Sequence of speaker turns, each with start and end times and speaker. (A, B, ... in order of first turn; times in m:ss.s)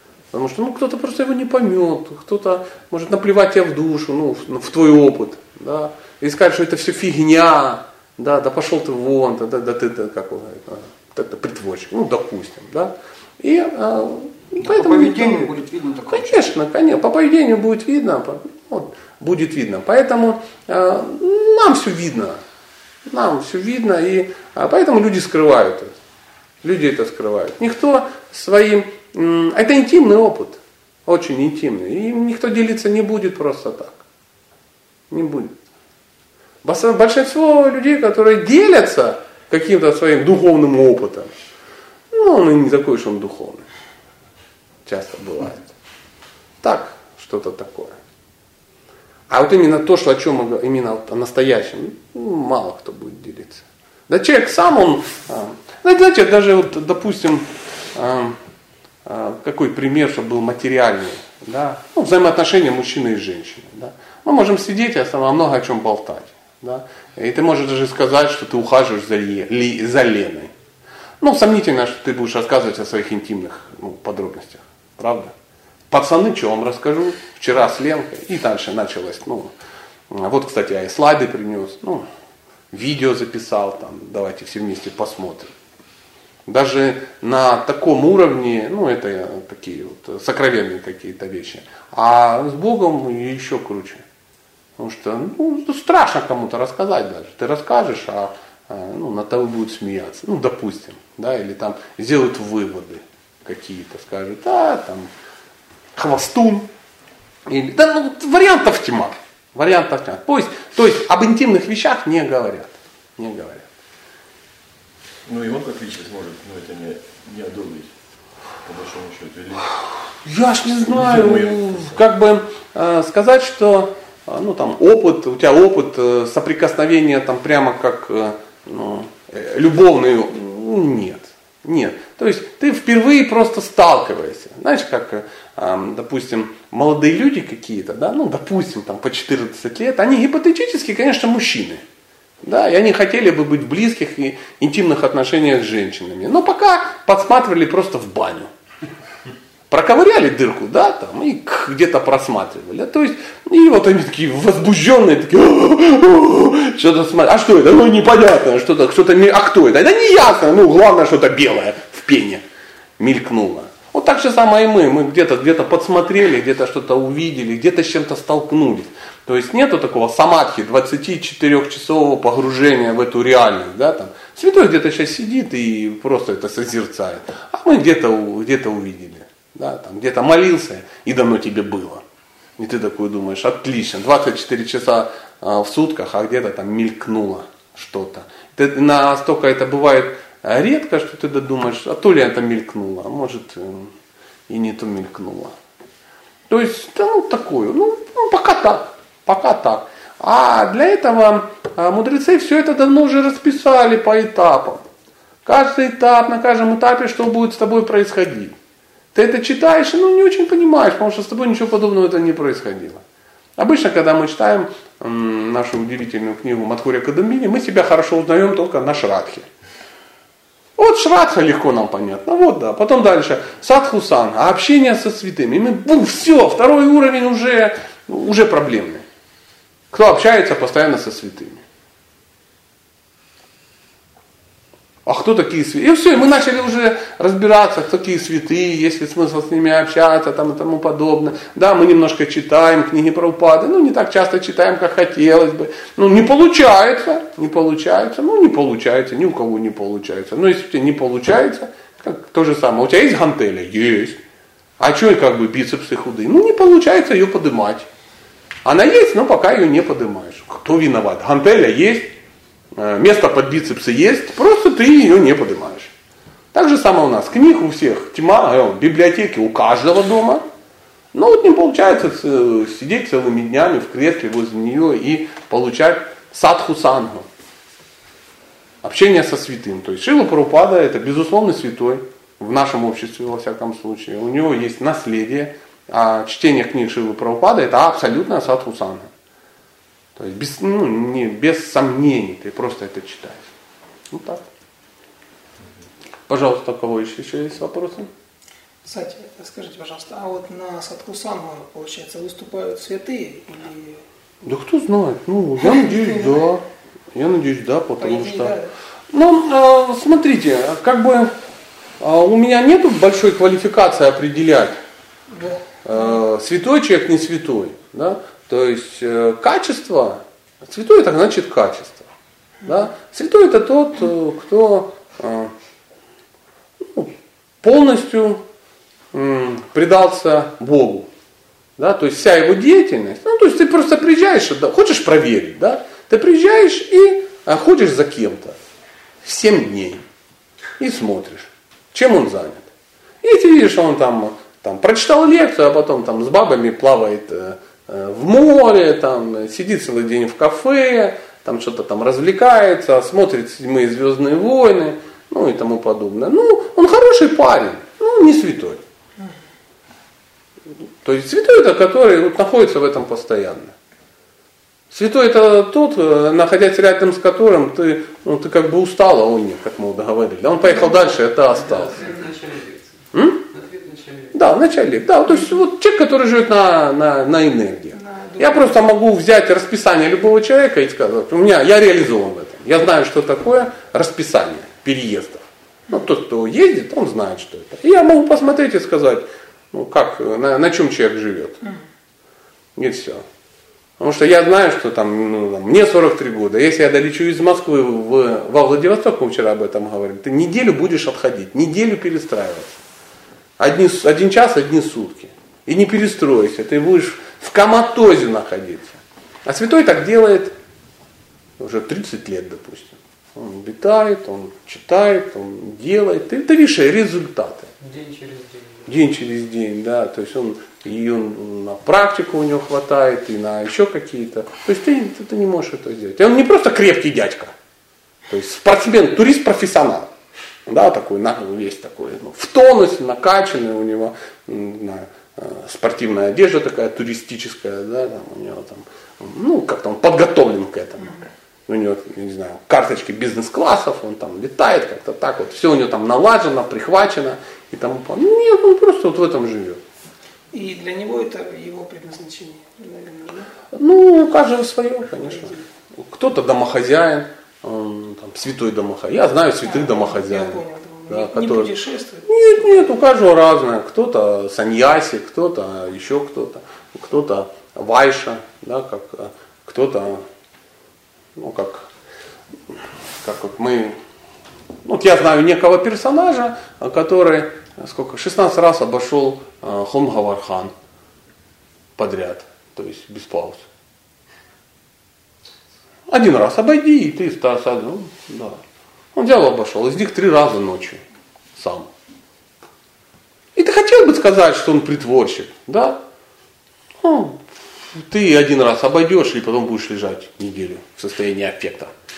0:00.3-0:15.5 A
0:14.6-0:16.6 B
0:16.1-0:22.4 A
0:23.1-0:25.9 A
0:26.6-0:34.0 A
0:35.1-0:35.5 A
0:36.6-0:41.3 A
0:42.1-0:43.6 A
0:44.8-0:45.7 A
0:46.6-0:48.0 A
0:49.3-0:58.4 A
0:59.0-1:10.5 A
1:11.2-1:15.3 A
1:15.9-1:19.5 A
1:20.1-1:22.0 A
1:22.7-1:25.5 A
1:26.5-1:34.0 A
1:34.8-1:45.1 A
1:46.0-1:46.7 A
1:47.5-1:53.7 A
1:55.2-1:57.9 C
1:58.6-1:59.8 C
2:00.2-2:21.8 A
2:00.9-2:01.6 C
2:22.4-2:28.5 A
2:29.7-2:42.4 A
2:43.0-3:02.0 A
3:02.6-3:13.9 A
3:14.5-3:15.5 A
3:16.5-3:24.8 A
3:25.4-3:28.5 A
3:29.1-3:33.0 A
3:33.6-3:39.5 A
3:40.8-3:49.0 A
3:49.9-3:51.6 A
3:55.0-4:14.2 A
4:14.8-4:17.9 A
4:18.6-4:22.1 A
4:22.7-4:25.9 A
4:26.5-4:30.4 A
4:31.1-4:37.3 A
4:38.8-4:49.1 A
4:50.2-4:53.4 A
4:54.1-4:54.4 A
4:56.3-4:58.1 A
4:58.8-5:04.0 D
5:04.4-5:08.6 A
5:05.6-5:06.4 D
5:08.0-5:08.7 D
5:09.1-5:11.3 A
5:12.0-5:14.8 A
5:15.3-5:16.2 D
5:15.8-5:22.1 A
5:22.6-5:25.5 A
5:26.8-5:28.4 A
5:29.1-5:31.1 A
5:31.8-5:38.6 A
5:39.2-5:40.0 A
5:40.8-5:42.7 A
5:43.2-5:58.8 A
6:01.0-6:03.7 A
6:04.9-6:11.9 A
6:10.9-6:14.4 E
6:13.1-6:13.4 A
6:14.3-6:31.6 A
6:17.9-6:18.8 D
6:32.8-6:33.2 A
6:34.0-6:42.8 A
6:43.6-6:50.5 A
6:51.6-6:57.7 A
6:57.8-6:59.0 E
6:58.9-7:07.5 A
7:08.3-7:10.1 A
7:10.7-7:29.8 A
7:30.5-7:33.5 D
7:33.7-7:41.7 A
7:35.3-7:35.6 D
7:39.6-7:42.8 D
7:42.2-7:50.2 A
7:51.4-7:51.9 A
7:53.2-7:54.0 A
7:54.8-8:00.7 A
8:02.0-8:03.6 A
8:06.1-8:08.6 A
8:09.1-8:11.0 A
8:11.6-8:11.9 A
8:13.6-8:16.0 A
8:17.0-8:17.4 A
8:17.9-8:21.9 A